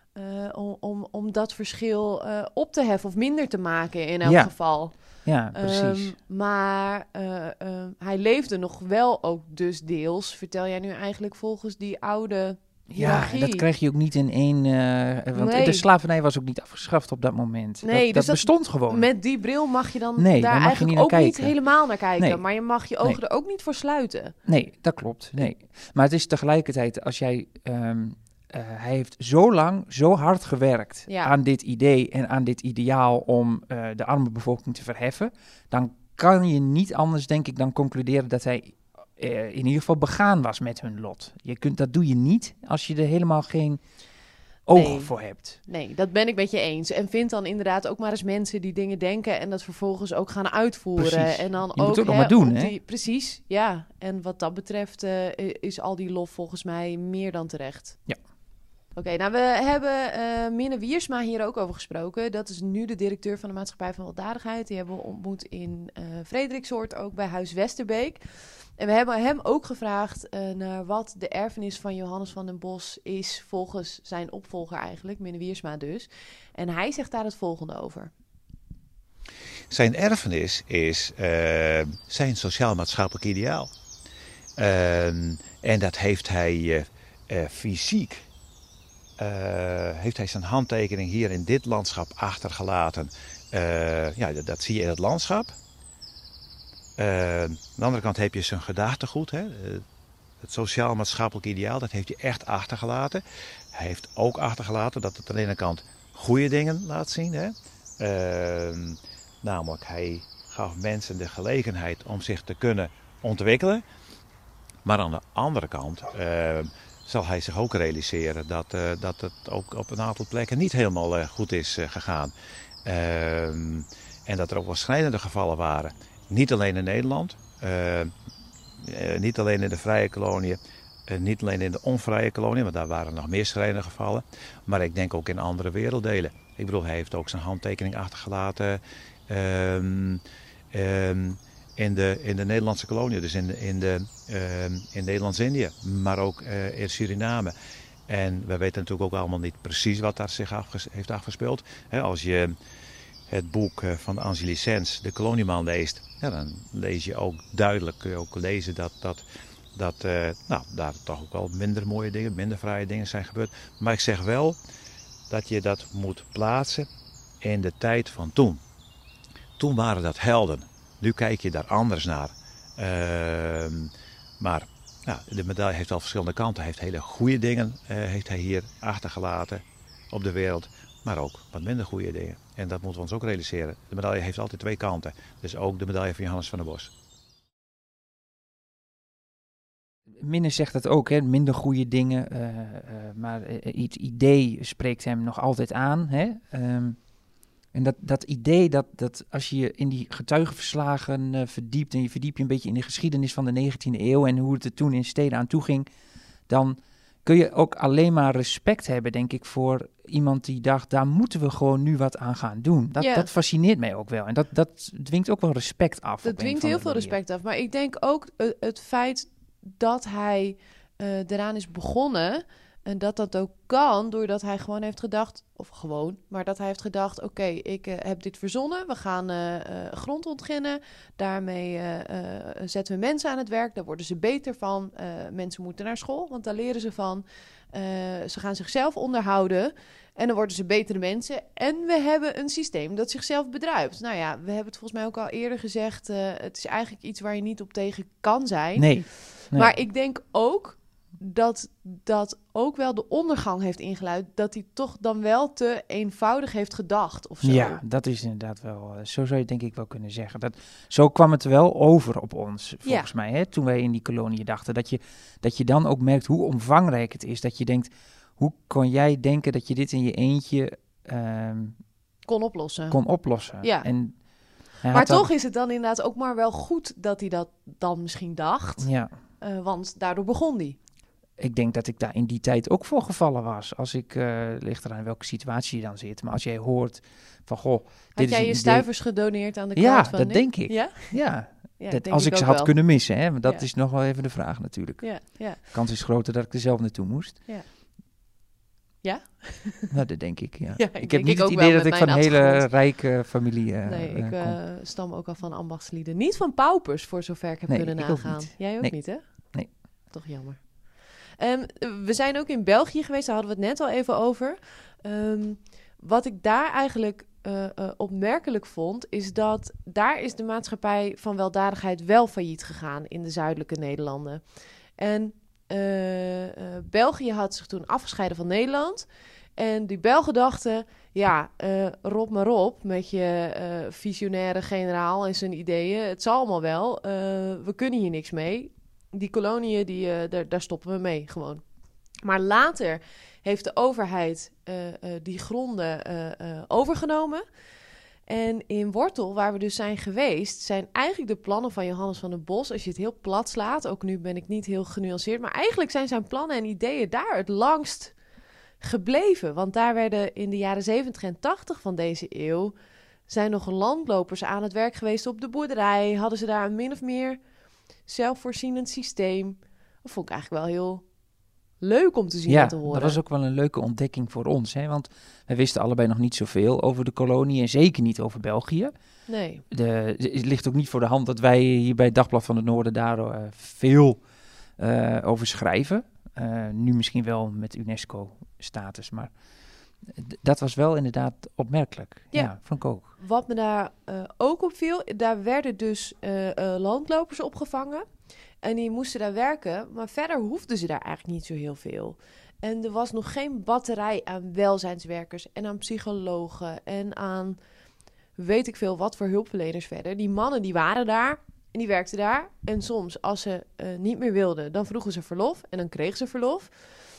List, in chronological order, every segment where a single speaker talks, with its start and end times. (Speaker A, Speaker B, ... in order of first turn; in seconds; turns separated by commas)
Speaker A: 0.1-13.7, Speaker B: 4.2-6.2, Speaker B: 12.9-19.1, Speaker A: 15.3-15.9, Speaker A: 17.8-24.4, Speaker B: 20.2-21.6, Speaker B: 24.5-43.8, Speaker A: 31.1-31.3, Speaker B: 44.7-45.6, Speaker A: 44.7-58.0, Speaker B: 51.0-52.7, Speaker A: 59.0-68.2, Speaker A: 68.8-78.1, Speaker C: 79.7-83.7, Speaker C: 84.6-88.3, Speaker C: 89.2-95.5, Speaker C: 97.0-99.8, Speaker C: 100.4-103.2, Speaker C: 103.7-113.8, Speaker C: 114.8-122.3, Speaker C: 122.8-128.1, Speaker C: 128.8-147.5, Speaker C: 148.1-152.5, Speaker C: 153.3-164.6, Speaker C: 165.3-166.9, Speaker C: 167.4-168.6, Speaker C: 169.6-186.9, Speaker B: 190.2-197.0, Speaker B: 197.7-205.9, Speaker B: 206.5-217.2, Speaker A: 213.0-213.3, Speaker A: 216.2-257.8, Speaker B: 248.8-249.7, Speaker B: 257.4-271.8, Speaker A: 262.8-263.1, Speaker A: 272.2-273.0, Speaker B: 272.9-274.1, Speaker A: 273.6-273.9, Speaker B: 274.8-275.3, Speaker A: 274.9-280.8, Speaker B: 278.8-279.1, Speaker B: 281.4-288.9, Speaker A: 288.1-291.2, Speaker B: 289.8-297.4, Speaker A: 291.8-292.9, Speaker A: 295.0-295.6, Speaker A: 299.0-299.9, Speaker B: 299.9-304.6, Speaker A: 300.8-302.7, Speaker A: 303.8-309.2, Speaker B: 307.7-309.7, Speaker A: 310.1-310.8, Speaker A: 311.4-324.4, Speaker A: 325.0-341.6, Speaker A: 342.2-347.4, Speaker A: 348.3-358.2, Speaker A: 358.8-362.7, Speaker A: 363.3-367.4, Speaker A: 368.1-371.1, Speaker A: 371.8-373.2, Speaker B: 372.5-378.9, Speaker A: 379.3-379.6, Speaker B: 379.7-384.2, Speaker B: 384.8-389.3, Speaker B: 390.1-393.1, Speaker A: 392.3-398.1, Speaker A: 398.6-407.6, Speaker A: 408.4-416.9